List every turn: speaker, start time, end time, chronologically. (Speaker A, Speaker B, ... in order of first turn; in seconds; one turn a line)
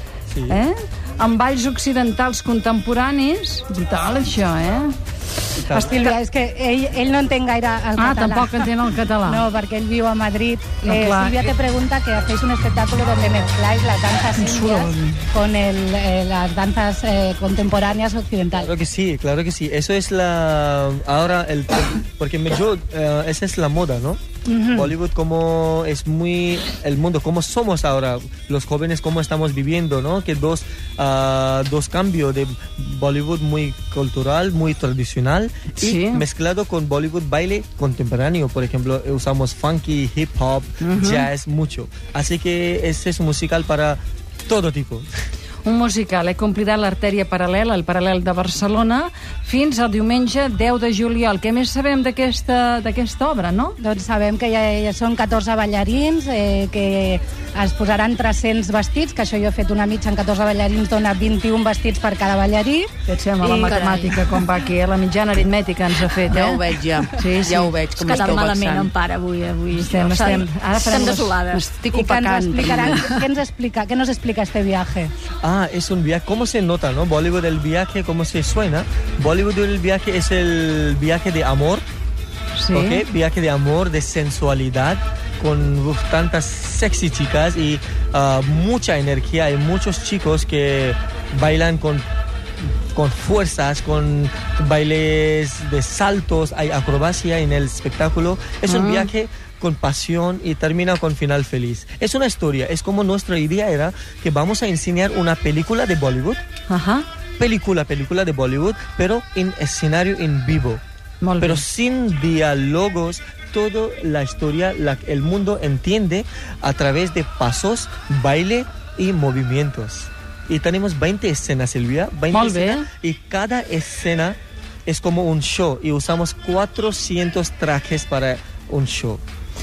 Speaker A: 0.3-0.6
Speaker B: 0.5-4.9
Speaker A: 5.5-6.0
Speaker B: 5.7-6.1
Speaker C: 5.7-8.7
Speaker B: 8.0-9.5
Speaker C: 9.3-18.7
Speaker B: 10.8-11.5
Speaker B: 14.4-15.2
Speaker A: 18.5-24.2
Speaker C: 24.5-24.9
Speaker A: 24.7-45.1
Speaker B: 35.8-36.2
Speaker B: 40.8-41.3
Speaker B: 45.6-53.8
Speaker C: 53.8-62.9
Speaker B: 63.1-67.7
Speaker C: 63.4-63.9
Speaker D: 63.6-64.2
Speaker E: 63.9-64.2
Speaker D: 66.2-68.9
Speaker E: 67.9-71.8
Speaker B: 69.8-71.4
Speaker C: 70.0-70.4
Speaker D: 71.5-73.0
Speaker C: 71.9-75.1
Speaker E: 72.8-73.3
Speaker A: 75.4-81.8
Speaker B: 82.6-83.0
Speaker A: 82.7-92.0
Speaker A: 92.9-106.4
Speaker B: 98.7-99.1
Speaker B: 106.7-107.1
Speaker A: 107.4-110.8
Speaker B: 111.2-111.6
Speaker A: 111.4-129.2
Speaker B: 122.3-122.9